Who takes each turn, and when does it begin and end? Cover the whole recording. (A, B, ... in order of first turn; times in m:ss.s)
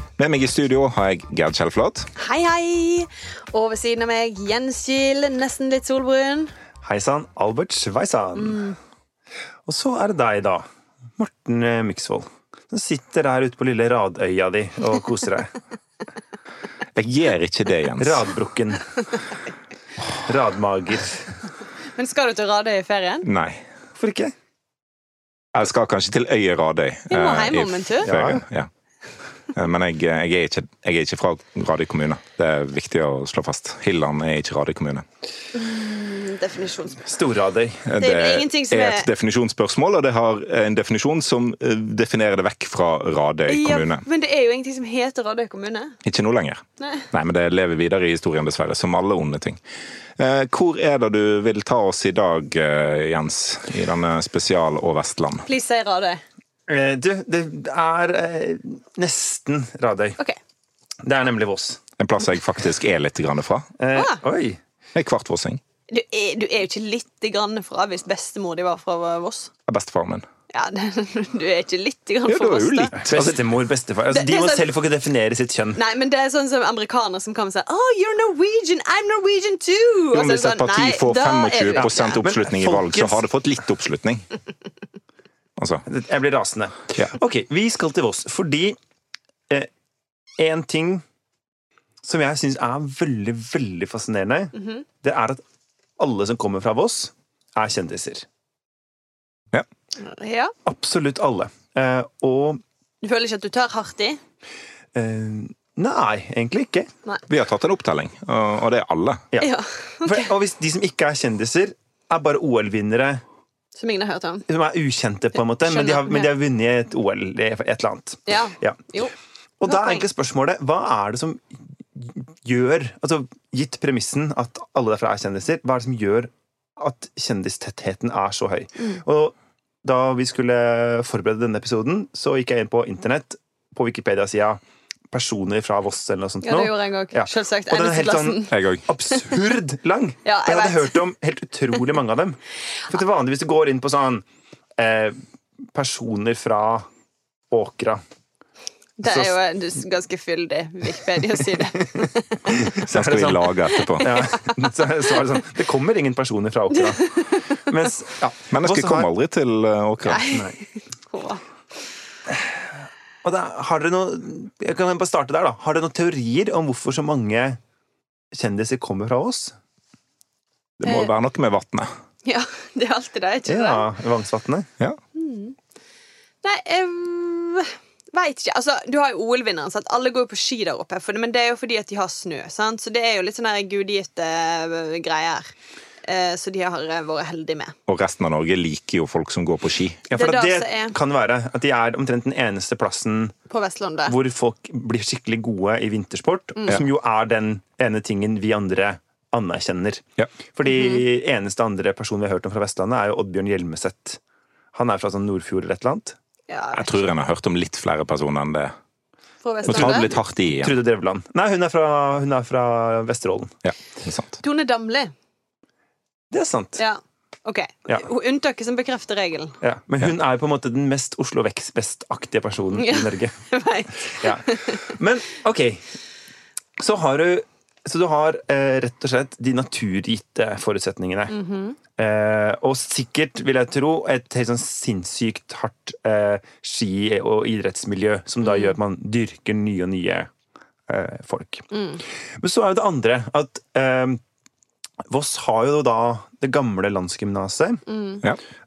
0:00.2-0:02.1 A
0:02.2-0:06.5 B
0:06.8-0:08.7 C
0:08.3-0:08.8 B
0:09.7-0:10.6 C
0:11.2-0:15.6 C
0:16.9-0:18.2 A
0:18.0-0:18.9 C
0:20.2-0:21.4 C
0:21.9-0:23.3 B
0:23.2-0:23.6 A
0:24.0-0:24.3 C
0:25.5-0:28.7 A
0:27.1-0:28.1 B
0:28.0-0:28.4 C
0:29.5-0:35.0 A
0:35.5-0:37.1 B
0:37.0-0:37.9 C
0:37.8-0:44.0 A
0:38.0-0:39.1 B
0:43.5-0:46.0 B
0:46.0-0:46.6 A
0:46.8-0:47.1 B
0:47.1-0:49.6 A
0:50.2-0:55.4 A
0:55.4-0:56.2 B
0:56.7-1:00.2 C
1:01.0-1:01.8 C
1:02.0-1:03.7 A
1:03.8-1:04.6 C
1:03.9-1:04.2 B
1:04.9-1:05.6 A
1:05.9-1:09.5 B
1:09.7-1:10.2 A
1:10.5-1:13.2 B
1:12.3-1:13.4 A
1:12.9-1:15.8 C
1:14.0-1:14.7 B
1:15.7-1:22.2 B
1:20.1-1:24.3 A
1:21.7-1:23.2 C
1:25.6-1:25.8 A
1:25.8-1:28.8 C
1:30.4-1:31.0 C
1:32.0-1:35.4 C
1:34.5-1:34.8 B
1:36.0-1:38.2 C
1:40.0-1:40.5 B
1:40.6-1:42.6 C
1:43.0-1:44.2 B
1:44.9-1:46.9 C
1:47.3-1:49.2 A
1:49.4-1:50.4 B
1:50.0-1:53.2 C
1:53.7-1:54.4 B
1:54.5-1:58.8 C
1:55.3-1:56.3 B
1:58.3-2:00.1 B
1:59.6-2:01.4 C
2:01.9-2:14.6 C
2:15.1-2:24.2 C
2:16.4-2:18.5 B
2:18.5-2:18.8 A
2:19.1-2:19.4 B
2:20.2-2:21.0 B
2:24.8-2:25.2 C
2:25.7-2:26.9 C
2:27.5-2:28.0 C
2:29.0-2:32.8 B
2:29.0-2:29.4 C
2:31.5-2:32.0 C
2:32.6-2:33.5 C
2:32.8-2:34.2 A
2:33.6-2:35.3 B
2:34.0-2:39.1 C
2:36.7-2:37.6 B
2:38.5-2:40.3 A
2:40.0-2:41.4 B
2:40.3-2:40.6 C
2:43.2-2:47.6 C
2:48.3-2:49.5 C
2:50.8-2:51.9 A
2:50.8-2:51.1 B
2:52.2-2:53.9 B
2:53.4-2:54.7 C
2:55.1-2:55.6 B
2:56.4-3:05.5 B
3:06.0-3:07.7 B
3:07.9-3:10.0 A
3:10.1-3:13.4 C
3:10.1-3:11.0 B
3:13.5-3:14.2 B
3:14.0-3:24.2 C
3:16.5-3:16.8 B
3:20.6-3:21.0 B
3:24.7-3:26.2 C
3:26.5-3:27.0 B
3:26.7-3:28.7 A
3:29.4-3:30.2 B
3:29.6-3:30.8 A
3:29.7-3:33.5 C
3:33.6-3:34.4 A
3:34.4-3:35.1 B
3:36.3-3:36.8 C
3:36.8-3:39.6 B
3:39.6-3:43.5 C
3:42.7-3:44.8 B
3:44.1-3:45.8 C
3:46.8-3:51.4 C
3:51.3-3:51.8 B
3:51.9-4:00.3 C
3:58.4-3:58.8 B
4:00.9-4:01.6 C
4:01.7-4:02.0 B
4:02.4-4:04.2 C
4:05.1-4:07.8 C
4:07.9-4:08.2 B